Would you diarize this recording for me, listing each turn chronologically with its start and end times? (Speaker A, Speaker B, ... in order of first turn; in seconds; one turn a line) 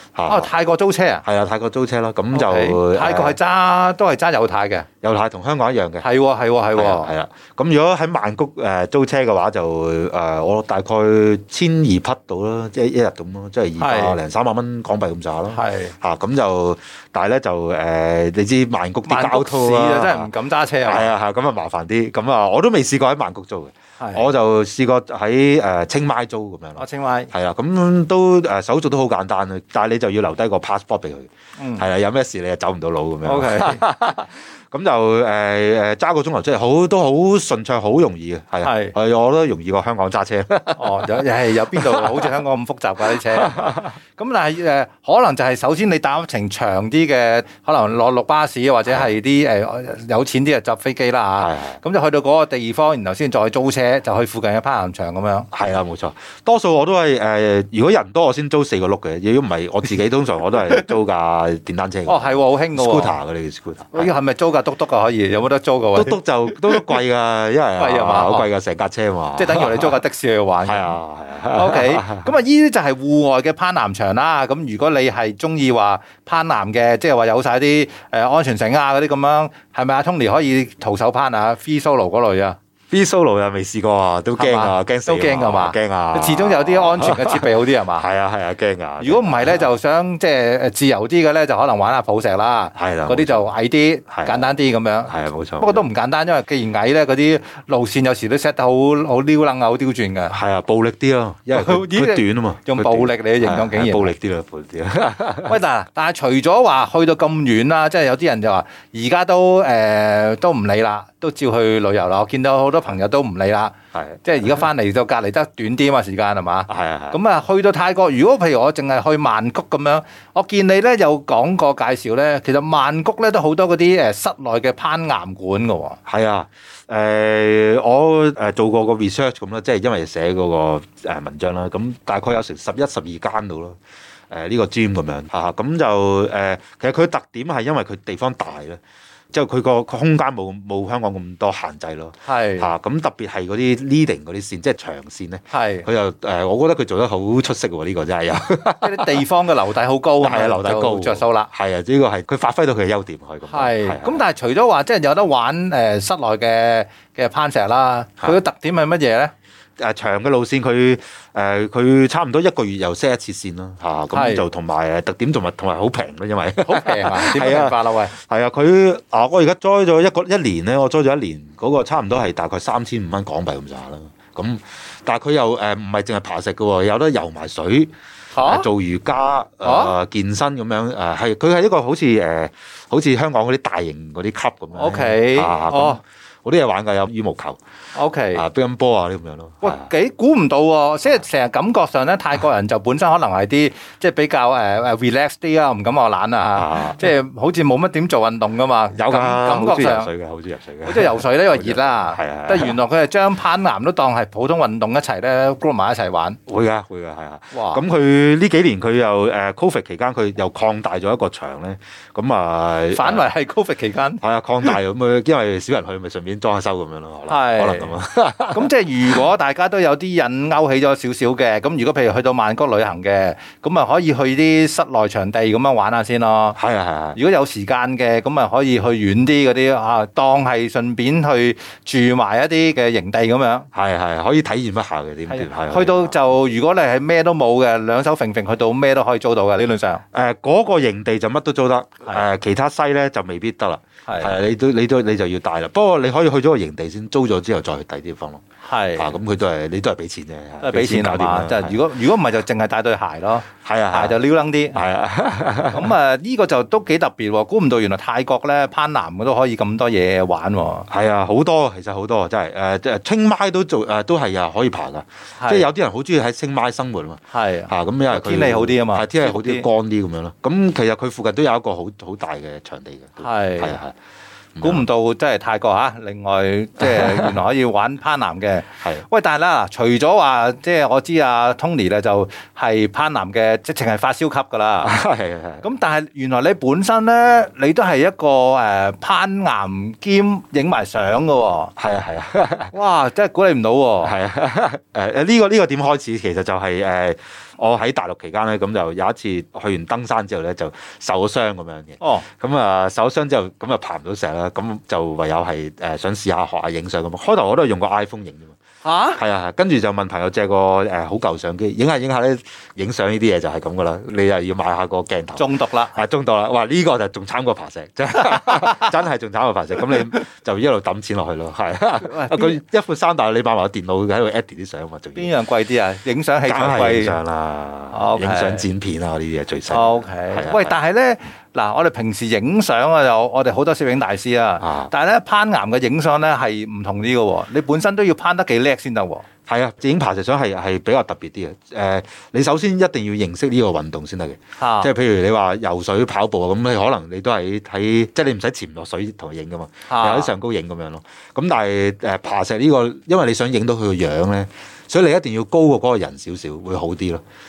Speaker A: 0.1-0.5
Speaker B: 0.3-1.2
Speaker A: 1.2-3.4
Speaker B: 2.3-4.9
Speaker A: 5.0-6.1
Speaker B: 6.0-7.1
Speaker A: 6.8-20.3
Speaker B: 13.8-14.2
Speaker B: 15.5-15.9
Speaker B: 19.1-21.1
Speaker A: 20.9-42.3
Speaker B: 24.0-24.2
Speaker B: 26.8-27.3
Speaker B: 31.6-31.9
Speaker B: 33.2-33.8
Speaker B: 38.6-39.0
Speaker B: 40.8-55.5
Speaker A: 43.0-43.9
Speaker A: 51.4-51.8
Speaker A: 55.5-64.1
Speaker B: 62.1-63.2
Speaker B: 63.9-67.0
Speaker A: 66.0-70.0
Speaker B: 67.8-68.5
Speaker B: 69.4-71.0
Speaker A: 70.6-72.3
Speaker B: 71.5-82.6
Speaker A: 82.9-89.7
Speaker B: 84.4-88.1
Speaker B: 89.0-100.4
Speaker A: 92.8-93.5
Speaker A: 94.1-94.5
Speaker A: 95.1-95.9
Speaker A: 100.3-105.6
Speaker B: 101.5-104.1
Speaker B: 105.5-126.0
Speaker A: 113.9-114.2
Speaker A: 116.7-117.2
Speaker A: 126.1-133.8
Speaker A: 134.3-138.8
Speaker A: 139.3-149.2
Speaker B: 142.3-142.7
Speaker B: 145.5-145.9
Speaker B: 148.8-151.5
Speaker A: 150.2-154.2
Speaker B: 153.5-159.3
Speaker A: 159.8-187.6
Speaker B: 164.1-164.5
Speaker B: 166.6-168.1
Speaker B: 178.3-178.7
Speaker B: 179.6-179.9
Speaker B: 184.7-186.0
Speaker B: 187.9-188.4
Speaker A: 188.3-189.9
Speaker B: 189.6-200.1
Speaker A: 196.6-197.1
Speaker A: 198.9-202.8
Speaker B: 200.8-206.4
Speaker A: 206.5-213.2
Speaker B: 207.5-207.8
Speaker B: 212.9-214.8
Speaker A: 214.2-218.7
Speaker B: 217.3-217.9
Speaker B: 218.5-226.6
Speaker A: 226.6-227.2
Speaker B: 227.2-233.7
Speaker A: 233.7-236.2
Speaker B: 235.3-240.0
Speaker A: 240.1-248.4
Speaker B: 244.1-244.3
Speaker B: 248.6-249.2
Speaker A: 249.0-251.8
Speaker B: 250.6-254.8
Speaker A: 253.6-254.2
Speaker A: 254.7-255.9
Speaker B: 255.7-260.9
Speaker A: 260.9-273.9
Speaker B: 265.4-265.7
Speaker B: 267.3-269.7
Speaker B: 273.2-273.8
Speaker A: 274.6-274.9
Speaker B: 274.6-285.0
Speaker A: 276.8-277.4
Speaker A: 284.8-285.6
Speaker B: 285.6-291.7
Speaker A: 291.8-292.7
Speaker B: 292.7-294.1
Speaker A: 294.0-308.6
Speaker B: 302.0-302.3
Speaker B: 308.8-309.2
Speaker A: 309.2-325.3
Speaker B: 315.4-315.9
Speaker B: 322.0-322.6
Speaker B: 325.2-327.2
Speaker A: 326.4-330.8
Speaker B: 327.9-328.6
Speaker B: 329.7-339.2
Speaker A: 334.6-334.9
Speaker A: 339.5-357.2
Speaker B: 344.6-344.9
Speaker B: 349.9-350.3